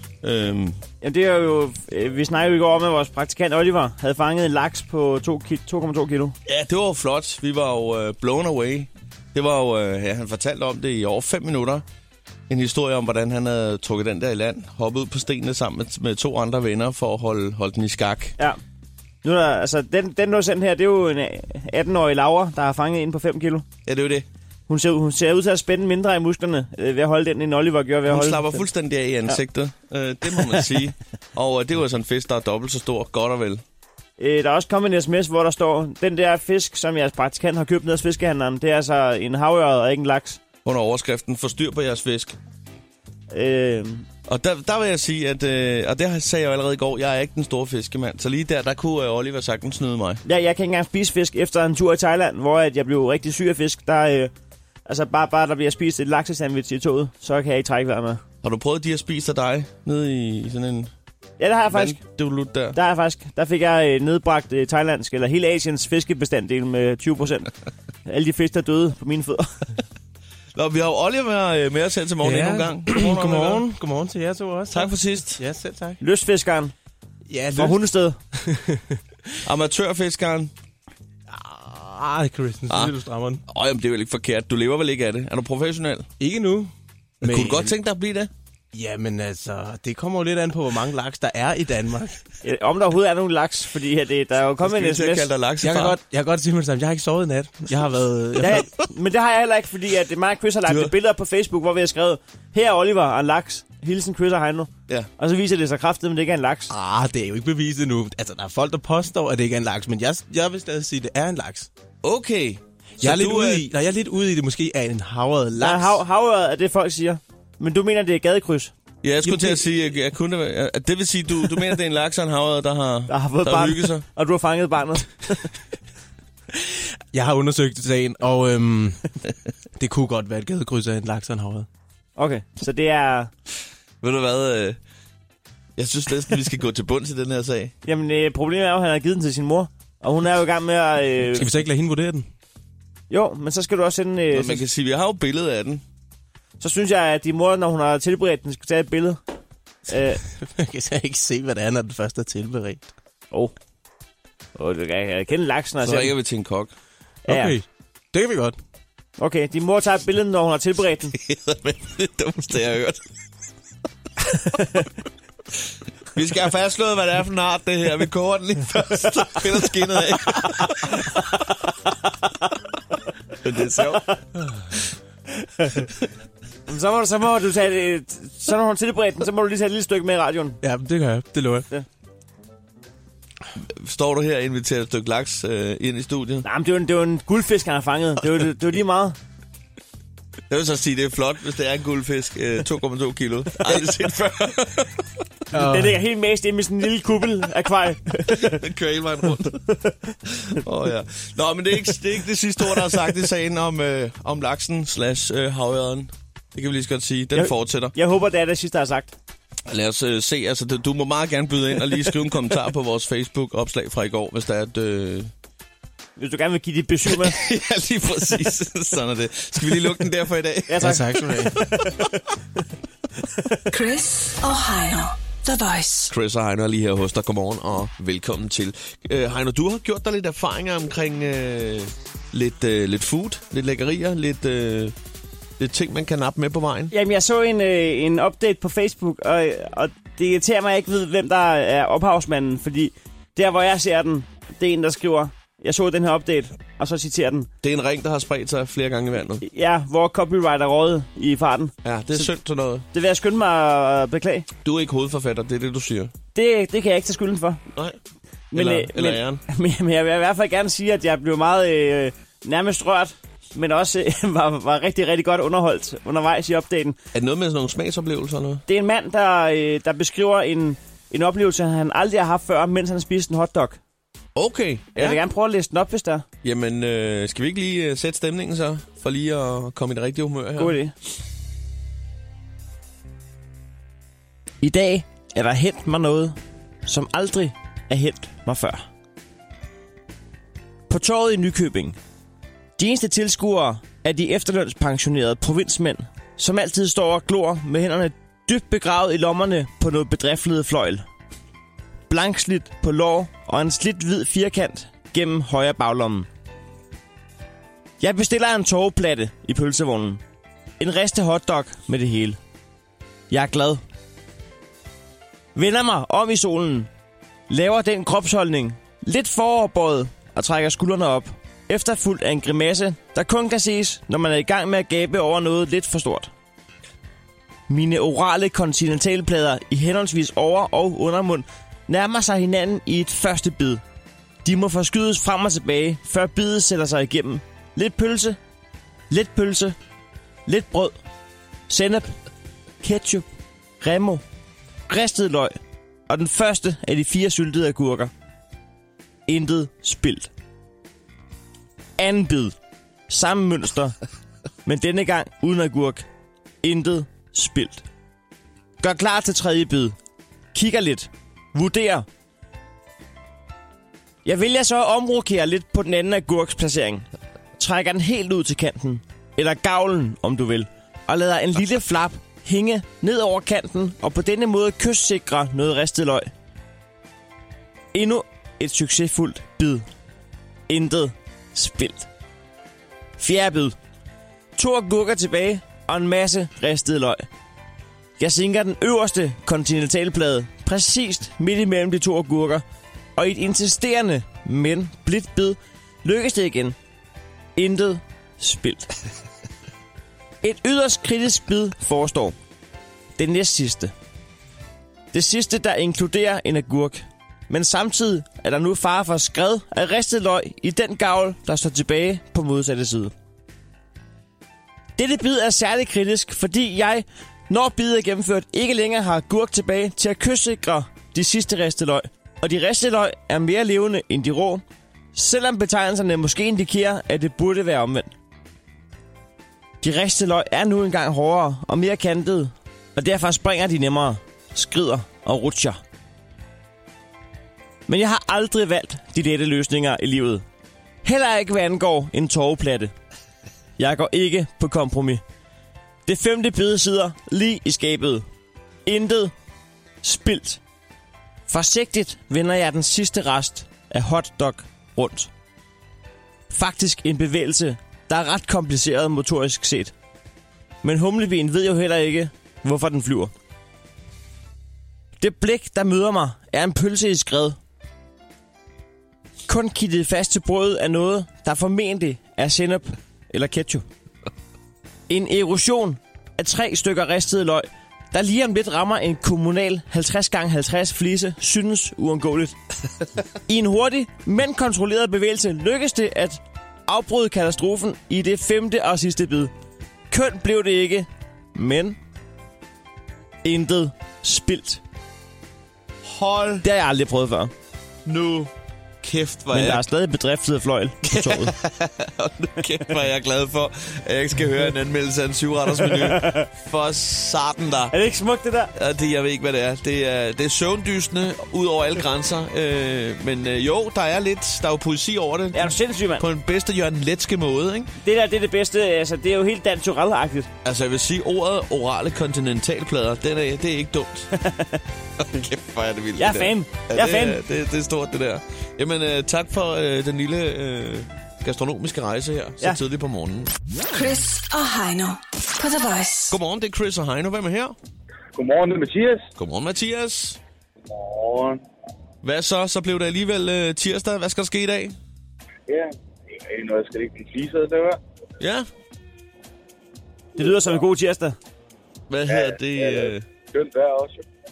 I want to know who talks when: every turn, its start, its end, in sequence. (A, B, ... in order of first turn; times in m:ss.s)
0:00.2-0:00.8 A
0:01.0-0:06.4 B
0:06.5-0:11.8 A
0:12.5-0:18.4 A
0:19.2-0:23.7 B
0:23.8-0:24.3 A
0:24.7-0:28.6 B
0:28.1-0:33.6 A
0:34.2-0:40.4 B
0:40.6-0:42.4 A
0:43.3-0:44.1 B
0:44.3-0:50.2 A
0:50.2-0:54.3 B
0:54.9-0:58.2 B
0:58.4-1:00.9 A
1:01.4-1:02.0 B
1:01.7-1:02.8 A
1:02.7-1:07.5 B
1:08.1-1:09.6 B
1:10.6-1:13.8 A
1:12.2-1:16.0 C
1:14.7-1:15.4 A
1:16.0-1:16.7 B
1:17.3-1:18.8 C
1:17.6-1:18.2 B
1:19.4-1:20.5 A
1:21.3-1:23.4 C
1:22.7-1:23.0 A
1:23.5-1:26.1 A
1:26.2-1:26.7 C
1:27.2-1:27.7 C
1:27.2-1:28.3 A
1:28.7-1:32.2 C
1:32.4-1:35.3 B
1:34.6-1:36.0 A
1:35.6-1:38.6 C
1:38.4-1:46.7 B
1:40.7-1:40.9 A
1:46.7-1:51.7 C
1:52.0-1:53.7 A
1:53.0-1:56.0 C
1:55.6-1:58.7 B
1:59.0-2:04.0 A
1:59.3-1:59.6 C
2:03.1-2:05.5 B
2:07.1-2:09.0 C
2:09.8-2:11.7 C
2:12.2-2:13.3 B
2:14.0-2:14.8 A
2:15.8-2:17.7 A
2:17.8-2:21.5 B
2:21.4-2:22.3 C
2:23.1-2:24.6 B
2:24.3-2:25.8 A
2:26.6-2:29.2 B
2:29.9-2:30.2 B
2:30.3-2:32.9 C
2:34.6-2:36.1 B
2:35.8-2:36.7 A
2:37.3-2:38.6 C
2:37.3-2:37.6 B
2:39.2-2:41.2 B
2:41.2-2:43.0 A
2:46.1-2:51.1 A
2:53.3-2:54.1 A
2:56.7-3:00.6 B
3:00.6-3:01.7 C
3:03.6-3:06.5 A
3:06.4-3:09.2 B
3:10.5-3:15.1 A
3:15.5-3:16.0 C
3:15.6-3:18.6 B
3:18.3-3:19.6 A
3:20.3-3:28.0 A
3:27.3-3:29.1 B
3:29.7-3:35.3 A
3:36.2-3:37.4 B
3:37.1-3:42.1 A
3:40.7-3:41.0 B
3:40.8-3:41.6 C
3:43.7-3:46.1 D
3:46.1-3:55.0 A
3:55.6-3:56.9 A
3:56.9-4:07.5 B
4:07.6-4:09.4 A
4:09.4-4:12.3 B
4:11.8-4:12.8 A
4:12.9-4:14.5 B
4:14.6-4:16.1 A
4:16.4-4:17.6 B
4:18.5-4:27.0 B
4:18.5-4:19.4 A
4:27.1-4:28.6 A
4:28.7-4:33.8 B
4:34.4-4:35.2 A
4:35.0-4:36.2 B
4:36.4-4:40.8 A
4:40.6-4:40.9 B
4:44.6-4:48.9 B
4:50.9-4:52.0 B
4:52.8-5:01.0 B
5:02.1-5:06.3 B
5:08.0-5:10.2 B
5:10.8-5:12.4 B
5:13.3-5:13.8 B
5:15.6-5:16.9 B
5:17.5-5:26.3 B
5:27.7-5:33.8 B
5:34.4-5:38.4 B
5:39.1-5:39.8 B
5:40.5-5:41.0 B
5:41.7-5:42.2 B
5:42.8-5:43.3 B
5:43.8-5:44.2 B
5:44.9-5:45.6 B
5:46.1-5:48.1 B
5:49.3-5:50.3 B
5:52.0-5:52.6 B
5:53.1-5:54.0 B
5:54.6-5:56.1 B
5:56.6-5:57.8 B
5:58.8-6:00.0 B
6:00.5-6:02.1 B
6:04.2-6:07.1 B
6:07.6-6:16.3 B
6:17.9-6:19.8 B
6:20.7-6:22.1 B
6:23.2-6:23.8 B
6:24.6-6:27.3 B
6:28.2-6:32.6 B
6:33.2-6:36.8 B
6:37.6-6:38.9 B
6:40.4-6:42.4 B
6:43.2-6:43.9 B
6:45.1-6:53.1 B
6:55.0-7:04.6 B
7:05.2-7:08.1 B
7:09.8-7:15.8 B
7:17.9-7:20.4 B
7:21.0-7:22.9 B
7:23.8-7:25.2 B
7:26.1-7:28.2 B
7:28.9-7:29.3 B
7:30.0-7:30.6 B
7:31.5-7:35.3 B
7:36.5-7:39.9 B
7:40.8-7:43.3 B
7:45.2-7:47.6 B
7:49.5-7:53.8 B
7:55.1-8:02.6 B
8:03.5-8:09.5 B
8:10.1-8:12.0 B
8:13.4-8:14.8 B
8:16.0-8:16.7 A
8:16.6-8:17.5 B
8:18.0-8:19.9 A
8:19.5-8:21.6 B
8:21.0-8:27.9 A
8:25.9-8:26.5 B
8:27.9-8:28.7 B
8:28.8-8:37.9 A
8:35.5-8:36.2 B
8:38.0-8:40.5 B
8:40.6-8:44.3 A
8:44.3-8:44.8 B
8:45.2-8:53.5 A
8:46.2-8:47.4 B
8:53.9-8:56.3 D
8:56.3-8:57.8 A
8:58.4-8:59.3 E
8:59.4-9:00.4 A
9:00.9-9:01.6 E
9:02.2-9:05.0 A
9:05.7-9:08.0 E
9:08.4-9:08.7 A
9:10.4-9:10.8 E
9:10.4-9:11.4 B
9:12.1-9:13.3 A
9:12.3-9:14.3 E